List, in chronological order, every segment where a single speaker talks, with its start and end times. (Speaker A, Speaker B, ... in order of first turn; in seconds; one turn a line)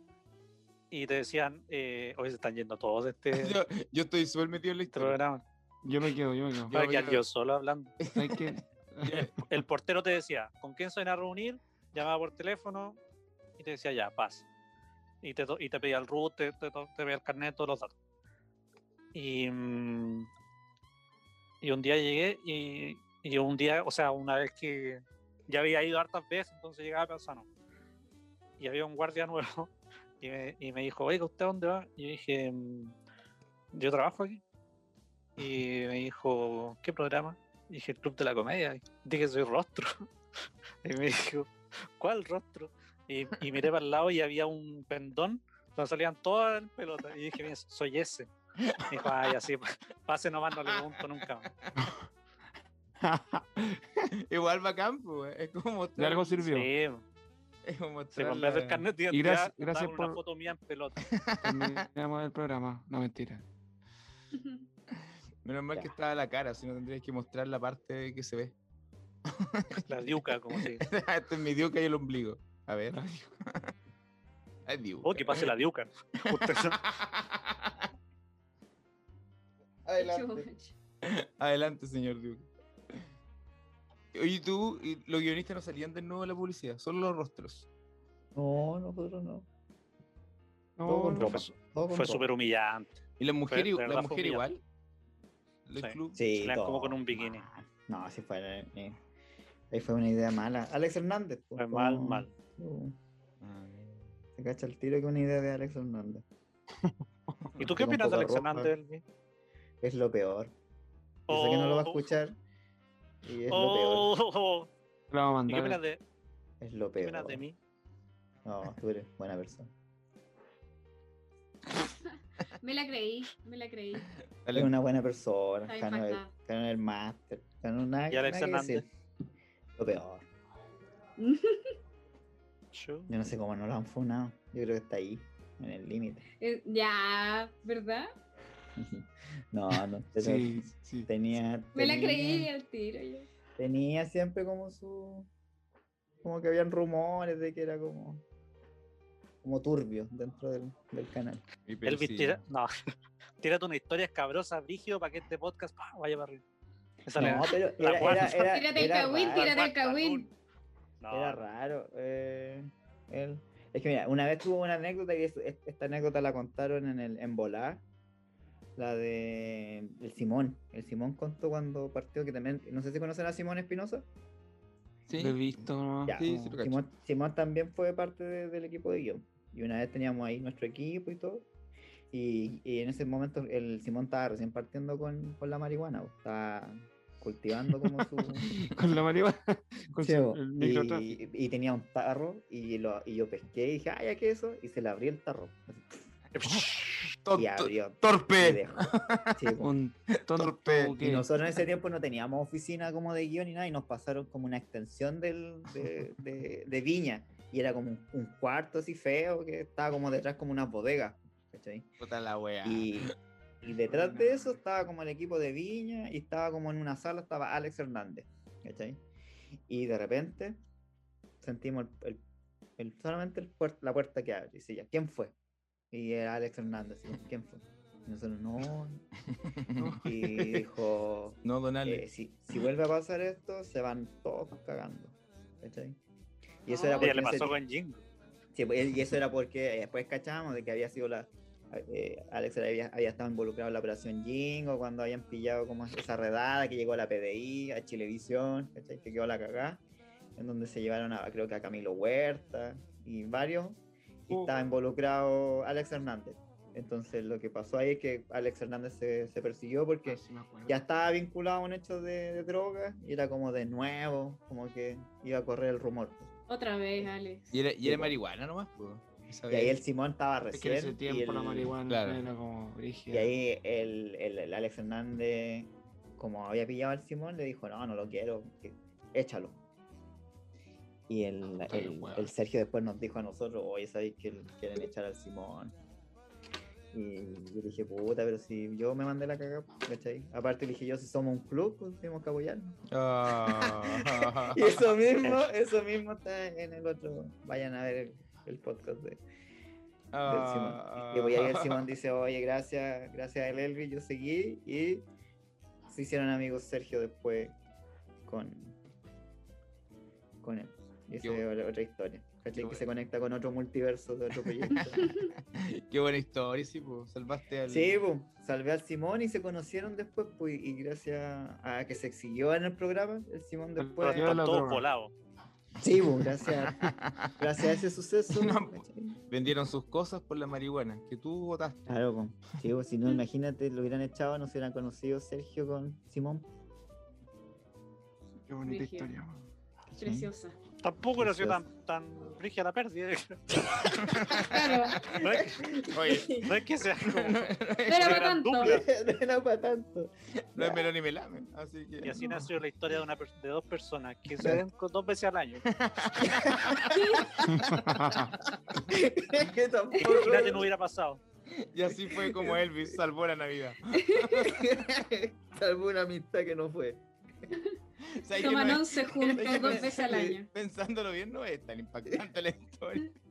Speaker A: 0.9-3.6
Speaker B: 3.3-5.2
Speaker A: 4.9-5.4
Speaker C: 5.8-6.7
Speaker B: 6.7-7.2
Speaker A: 6.7-7.9
Speaker B: 8.0-9.4
Speaker C: 8.0-9.3
Speaker A: 9.5-13.0
Speaker A: 13.6-14.4
Speaker A: 15.2-17.9
Speaker A: 19.1-20.3
Speaker A: 21.6-27.4
Speaker A: 28.6-32.9
Speaker A: 33.7-34.4
Speaker A: 35.4-40.0
Speaker A: 40.8-48.3
Speaker B: 48.6-49.3
Speaker A: 48.9-51.5
Speaker B: 50.7-51.7
Speaker C: 51.8-52.0
Speaker C: 53.0-53.8
Speaker B: 54.2-56.5
Speaker C: 56.0-56.7
Speaker A: 56.4-57.0
Speaker B: 57.6-58.8
Speaker A: 58.1-61.0
Speaker C: 59.1-60.2
Speaker B: 61.0-61.9
Speaker C: 61.4-63.5
Speaker D: 64.3-64.6
Speaker B: 65.4-68.5
Speaker B: 69.3-73.7
Speaker A: 69.9-70.8
Speaker C: 72.9-73.4
Speaker B: 74.7-75.5
Speaker A: 75.0-76.8
Speaker B: 76.2-77.9
Speaker E: 79.9-80.4
Speaker D: 80.0-80.7
Speaker B: 81.0-82.5
Speaker B: 84.1-87.7
Speaker E: 88.3-89.5
Speaker C: 90.8-91.4
Speaker E: 90.8-92.2
Speaker A: 91.2-94.4
Speaker B: 93.2-94.6
Speaker B: 95.7-96.2
Speaker A: 95.8-97.5
Speaker E: 96.1-99.0
Speaker E: 99.7-103.0
Speaker A: 101.6-102.3
Speaker B: 103.4-104.2
Speaker E: 104.4-106.2
Speaker A: 107.6-109.0
Speaker E: 107.6-108.7
Speaker E: 109.8-110.5
Speaker A: 111.3-112.1
Speaker E: 111.3-112.3
Speaker E: 113.2-114.1
Speaker A: 113.5-114.7
Speaker C: 115.1-115.8
Speaker A: 115.5-116.0
Speaker E: 116.6-117.4
Speaker A: 117.0-117.5
Speaker E: 118.4-119.7
Speaker D: 122.6-124.1
Speaker B: 124.4-124.7
Speaker E: 124.5-128.8
Speaker D: 125.7-126.3
Speaker A: 128.1-128.8
Speaker E: 129.8-130.2
Speaker D: 131.2-131.7
Speaker A: 132.7-133.1
Speaker E: 133.1-136.2
Speaker D: 136.4-138.1
Speaker E: 138.8-142.5
Speaker C: 140.2-141.1
Speaker D: 141.7-143.3
Speaker E: 143.6-145.3
Speaker E: 146.2-148.2
Speaker E: 149.4-151.4
Speaker B: 151.7-152.4
Speaker A: 151.8-152.7
Speaker A: 153.4-156.4
Speaker A: 157.1-158.6
Speaker E: 157.2-159.6
Speaker D: 158.0-160.3
Speaker A: 159.2-160.3
Speaker A: 161.0-161.4
Speaker E: 161.1-167.8
Speaker E: 168.8-174.1
Speaker B: 175.1-176.8
Speaker C: 175.1-176.6
Speaker E: 176.1-181.5
Speaker E: 182.1-188.5
Speaker C: 188.3-191.2
Speaker E: 190.0-196.1
Speaker A: 196.3-197.0
Speaker B: 196.4-199.4
Speaker E: 197.3-199.7
Speaker C: 199.6-201.3
Speaker B: 200.1-201.0
Speaker E: 200.9-211.9
Speaker B: 212.0-213.1
Speaker E: 212.6-219.0
Speaker C: 213.9-214.5
Speaker E: 219.7-220.6
Speaker E: 221.4-222.2
Speaker E: 222.8-225.3
Speaker E: 225.9-229.0
Speaker B: 229.4-230.6
Speaker C: 229.8-230.1
Speaker E: 230.0-236.0
Speaker B: 231.4-232.1
Speaker E: 236.6-237.6
Speaker D: 236.7-237.3
Speaker A: 237.0-238.0
Speaker E: 238.5-249.8
Speaker E: 250.3-266.3
Speaker C: 254.3-254.7
Speaker C: 260.1-260.8
Speaker D: 266.5-267.5
Speaker B: 267.5-269.8
Speaker E: 267.8-268.2
Speaker E: 269.5-271.8
Speaker C: 270.5-273.3
Speaker B: 271.9-272.2
Speaker E: 273.1-279.6
Speaker E: 281.1-285.7
Speaker C: 281.7-282.3
Speaker E: 286.9-299.2
Speaker B: 292.9-294.9
Speaker B: 300.1-301.8
Speaker E: 300.2-305.1
Speaker E: 305.9-307.6
Speaker E: 308.2-308.8
Speaker E: 310.4-315.1
Speaker B: 312.5-312.8
Speaker B: 314.7-318.0
Speaker E: 317.7-324.4
Speaker C: 323.8-324.8
Speaker A: 324.0-325.1
Speaker E: 325.8-329.2
Speaker B: 326.4-327.7
Speaker B: 328.3-331.9
Speaker E: 331.9-336.5
Speaker C: 338.5-339.4
Speaker D: 338.6-339.1
Speaker D: 339.9-340.6
Speaker E: 340.0-340.3
Speaker A: 340.8-344.1
Speaker E: 341.2-341.6
Speaker B: 343.9-345.2
Speaker D: 344.4-345.0
Speaker A: 345.0-345.6
Speaker E: 345.0-346.5
Speaker B: 345.9-346.5
Speaker A: 346.3-348.9
Speaker B: 347.0-348.3
Speaker D: 347.9-348.8
Speaker E: 348.6-350.9
Speaker B: 350.5-352.4
Speaker A: 352.0-355.6
Speaker B: 355.7-357.1
Speaker E: 356.2-357.9
Speaker D: 356.9-357.3
Speaker C: 357.4-358.4
Speaker E: 358.7-360.7
Speaker A: 360.0-361.2
Speaker B: 361.5-364.6
Speaker E: 361.9-362.6
Speaker D: 363.9-364.4
Speaker E: 364.3-367.0
Speaker B: 368.0-373.1
Speaker D: 368.4-370.5
Speaker E: 369.3-370.4